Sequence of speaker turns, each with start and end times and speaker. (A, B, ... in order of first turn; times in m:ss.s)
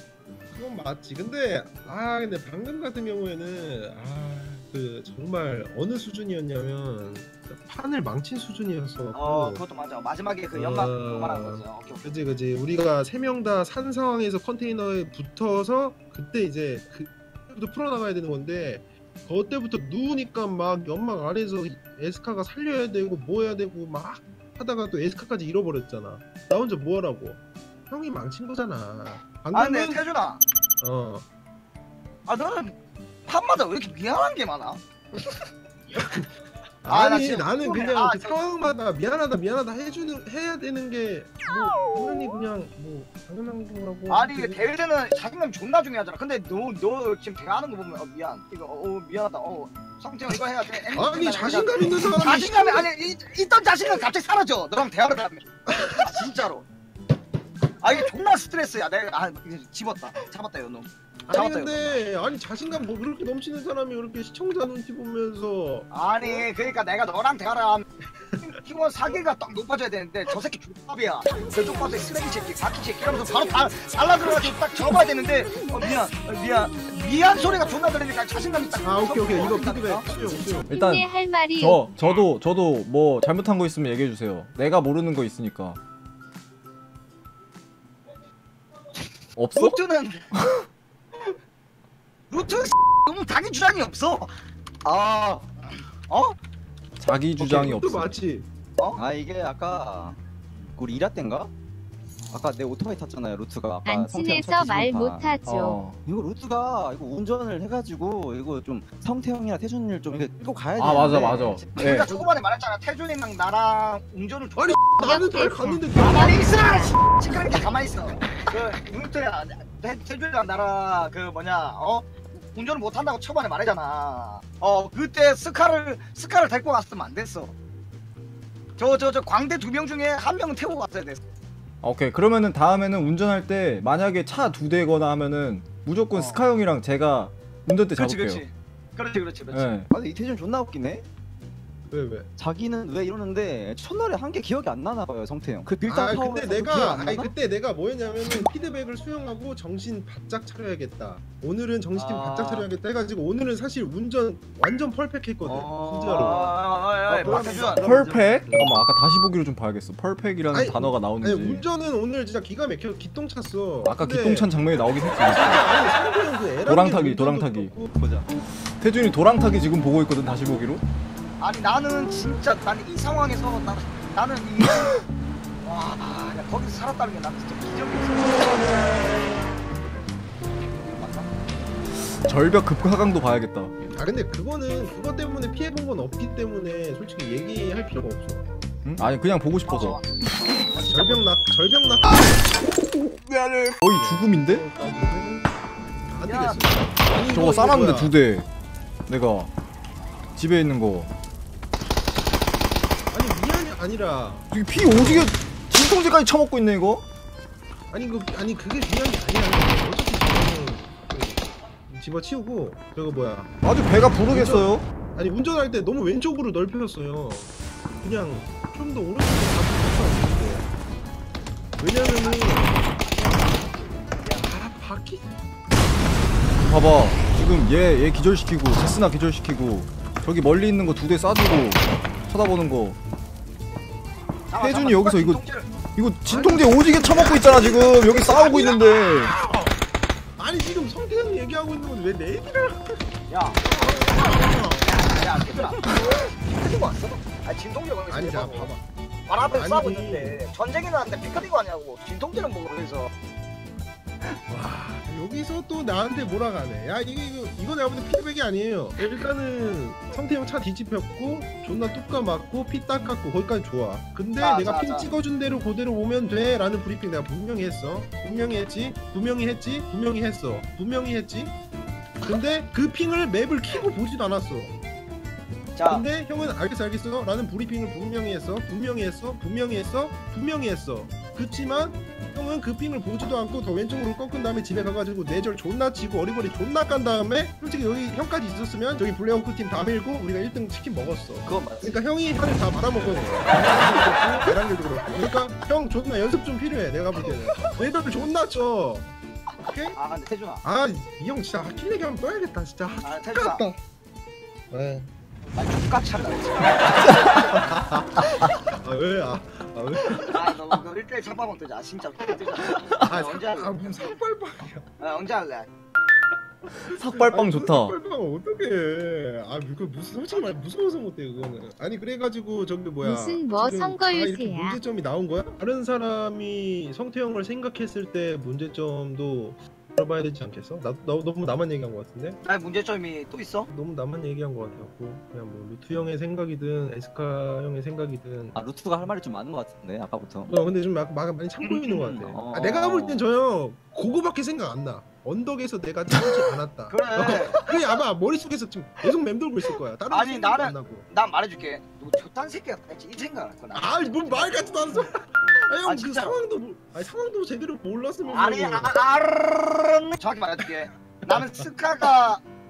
0:00.5-0:09.6 A
0:09.1-0:12.1 B
0:10.5-0:30.0 A
0:29.5-0:30.4 B
0:30.8-0:31.2 A
0:32.3-0:34.8 B
0:36.0-0:36.3 A
0:36.8-0:44.6 A
0:36.9-0:38.4 B
0:44.1-0:56.7 B
0:51.0-0:52.9 A
0:55.7-0:56.1 A
0:57.8-1:02.0 B
1:01.3-1:05.9 A
1:05.9-1:07.9 B
1:08.4-1:20.1 B
1:18.8-1:20.7 A
1:20.7-1:21.0 C
1:20.7-1:21.8 D
1:21.6-1:25.8 C
1:29.4-1:30.6 C
1:29.5-1:30.3 B
1:32.3-1:36.4 B
1:37.0-1:38.1 C
1:37.4-1:38.5 A
1:39.0-1:40.2 E
1:40.7-1:41.5 E
1:42.2-1:42.5 B
1:42.3-1:45.4 E
1:43.8-1:45.8 D
1:45.4-1:46.0 C
1:46.0-1:52.3 E
1:50.8-1:52.1 C
1:51.8-1:55.4 B
1:54.6-1:56.5 A
1:55.0-1:56.4 D
1:56.0-2:07.6 B
2:08.8-2:11.2 B
2:11.8-2:18.4 C
2:16.1-2:16.4 B
2:18.0-2:19.8 B
2:19.5-2:19.9 C
2:19.9-2:21.0 E
2:21.9-2:22.3 A
2:22.4-2:27.3 E
2:25.8-2:36.5 A
2:32.0-2:32.7 E
2:35.4-2:38.8 E
2:36.1-2:37.8 B
2:37.2-2:37.8 A
2:37.8-2:41.7 C
2:38.5-2:38.8 A
2:40.5-2:44.5 A
2:43.8-2:45.7 C
2:45.2-2:47.9 A
2:46.6-2:47.8 C
2:47.9-2:48.4 E
2:48.5-2:50.8 C
2:51.4-2:55.0 B
2:55.6-2:59.6 B
3:00.6-3:01.4 B
3:01.9-3:03.8 C
3:04.0-3:08.5 A
3:08.8-3:10.0 C
3:09.7-3:11.2 B
3:10.9-3:12.3 A
3:13.7-3:14.6 C
3:13.9-3:15.5 A
3:16.1-3:18.2 A
3:16.2-3:16.7 B
3:17.3-3:18.5 C
3:19.1-3:19.5 C
3:20.4-3:21.1 C
3:23.1-3:25.3 A
3:24.5-3:27.0 C
3:27.9-3:33.5 A
3:33.6-3:34.9 C
3:34.2-3:40.7 A
3:41.8-3:42.8 A
3:41.9-3:44.5 B
3:44.4-3:45.3 A
3:46.6-3:53.0 C
3:54.5-3:55.7 B
3:54.6-3:55.4 C
3:56.0-3:59.4 C
3:56.2-3:59.8 A
3:58.2-3:58.7 B
4:00.4-4:03.1 A
4:03.3-4:08.7 B
4:03.6-4:04.9 A
4:08.1-4:08.8 A
4:09.3-4:13.1 B
4:09.5-4:10.4 A
4:14.5-4:31.6 A
4:24.4-4:25.1 B
4:32.2-4:34.8 A
4:35.8-4:36.1 B
4:35.9-4:59.1 A
4:51.4-4:52.0 E
4:59.7-5:00.0 A
5:00.0-5:00.6 B
5:00.6-5:03.8 A
5:03.0-5:03.6 B
5:04.7-5:05.1 A
5:05.5-5:07.2 B
5:07.3-5:10.5 A
5:10.3-5:13.8 B
5:13.0-5:14.9 A
5:15.0-5:15.7 B
5:16.9-5:18.0 C
5:17.1-5:32.4 A
5:23.0-5:24.8 D
5:32.4-5:33.7 B
5:33.7-5:38.6 A
5:38.5-5:40.5 E
5:40.5-5:51.1 A
5:41.6-5:42.2 B
5:41.9-5:43.2 E
5:46.9-5:47.6 B
5:50.1-5:55.0 B
5:53.7-5:59.0 A
5:55.8-5:56.4 B
5:58.3-6:02.4 B
6:01.2-6:01.6 A